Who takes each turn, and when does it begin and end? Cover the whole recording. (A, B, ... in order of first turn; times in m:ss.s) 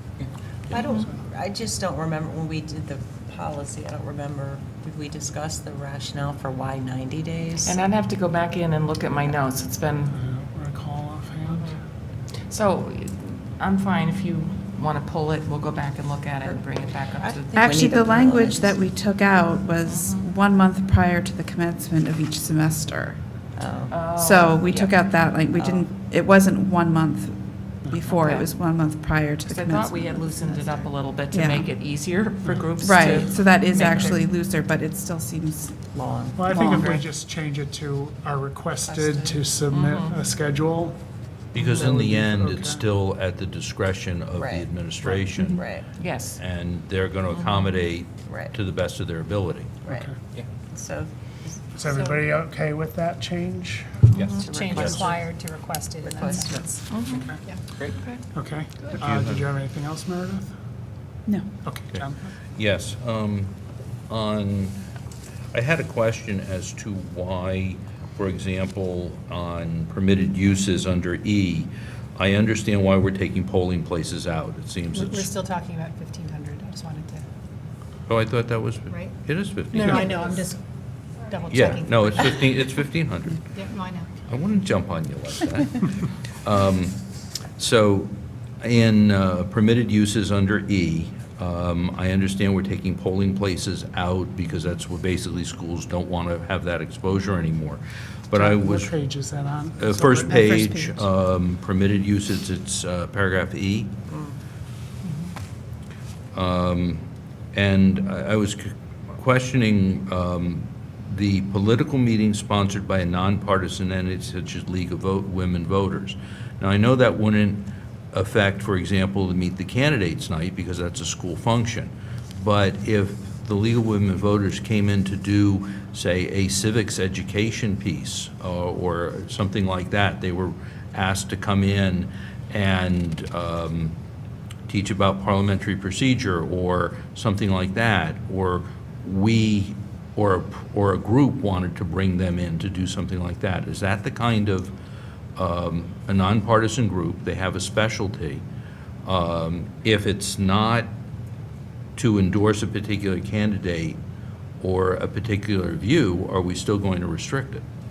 0:00.7-0:07.8 A
0:07.6-0:10.1 B
0:10.1-0:11.7 C
0:11.5-0:11.8 B
0:12.5-0:17.8 B
0:17.2-0:18.8 A
0:17.6-0:23.2 D
0:19.9-0:20.2 B
0:23.6-0:24.0 A
0:23.9-0:25.2 B
0:24.1-0:30.3 D
0:25.5-0:25.9 A
0:28.1-0:28.5 B
0:29.4-0:34.2 B
0:30.5-0:30.9 A
0:31.3-0:31.7 D
0:32.8-0:35.8 D
0:35.9-0:36.9 A
0:36.3-0:41.0 C
0:36.5-0:37.0 B
0:38.8-0:39.4 A
0:39.7-0:40.1 B
0:41.5-0:45.6 E
0:41.5-0:42.8 C
0:44.4-0:44.7 A
0:45.5-0:45.9 A
0:46.0-0:46.4 B
0:46.4-0:49.8 E
0:48.2-0:48.5 A
0:49.8-0:50.1 A
0:49.9-0:50.1 C
0:50.6-0:51.7 A
0:51.7-0:54.2 C
0:51.8-0:52.3 F
0:54.1-0:54.5 B
0:54.1-0:55.0 E
0:54.4-0:55.2 A
0:54.4-0:56.8 F
0:56.0-0:56.8 A
0:56.9-0:57.3 B
0:57.4-0:57.6 F
0:57.8-0:58.2 B
0:58.3-1:00.5 C
0:59.0-0:59.5 E
1:01.2-1:01.5 D
1:01.6-1:02.3 C
1:02.6-1:03.5 E
1:04.1-1:04.8 E
1:05.5-1:15.3 E
1:14.9-1:17.2 F
1:18.1-1:20.0 E
1:19.7-1:20.6 F
1:21.2-1:22.6 F
1:21.5-1:23.6 E
1:23.5-1:24.1 F
1:24.2-1:27.0 E
1:27.6-1:38.9 E
1:38.3-1:40.4 C
1:39.8-1:44.0 E
1:40.3-1:41.0 F
1:44.1-1:44.3 A
1:46.3-1:47.0 E
1:47.5-2:14.0 E
2:14.7-2:24.7 E
2:25.4-2:28.4 E
2:29.0-2:30.9 E
2:32.0-2:34.0 E
2:34.6-2:37.6 E